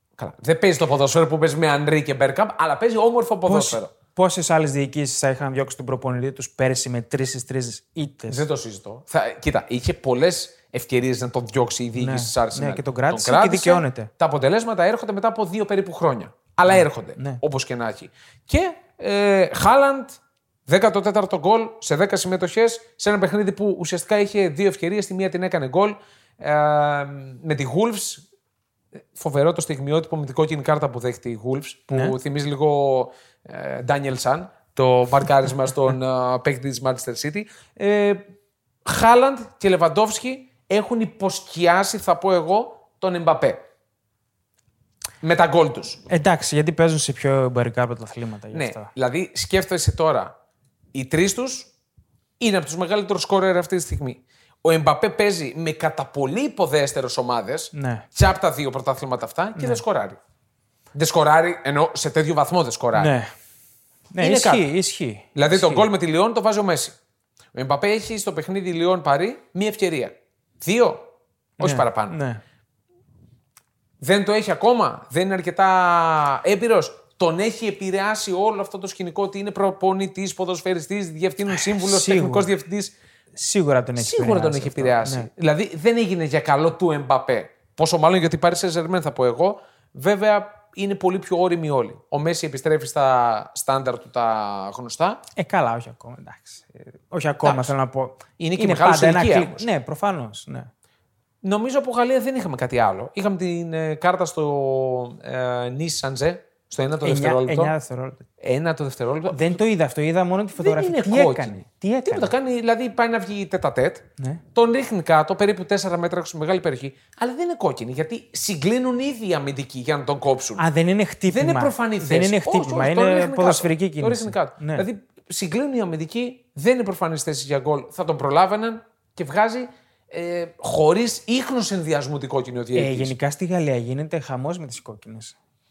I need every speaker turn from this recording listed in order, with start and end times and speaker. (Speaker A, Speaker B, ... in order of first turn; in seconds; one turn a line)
Speaker A: 0.2-3.9
Speaker B: 3.5-8.4
Speaker A: 8.3-28.2
Speaker B: 12.0-14.1
Speaker B: 16.8-17.4
Speaker A: 29.1-38.2
Speaker A: 38.9-43.6
Speaker A: 45.2-46.0
Speaker B: 46.1-48.9
Speaker A: 48.5-50.3
Speaker A: 50.9-51.7
Speaker A: 52.4-60.2
Speaker B: 57.7-58.1
Speaker B: 59.6-59.8
Speaker A: 60.9-63.1
Speaker B: 63.0-63.3
Speaker B: 64.1-65.9
Speaker A: 64.2-64.7
Speaker A: 65.3-67.0
Speaker A: 67.5-72.2
Speaker B: 71.6-72.4
Speaker A: 74.0-83.0
Speaker B: 81.5-82.5
Speaker B: 83.4-85.3
Speaker A: 84.0-95.2
Speaker B: 95.4-100.7
Speaker A: 97.4-97.7
Speaker A: 98.4-99.7
Speaker A: 101.4-107.7
Speaker B: 107.0-108.2
Speaker A: 108.4-109.6
Speaker B: 109.3-112.3
Speaker A: 110.6-120.6
Speaker B: 120.6-124.9
Speaker A: 121.3-133.1
Speaker B: 132.8-135.4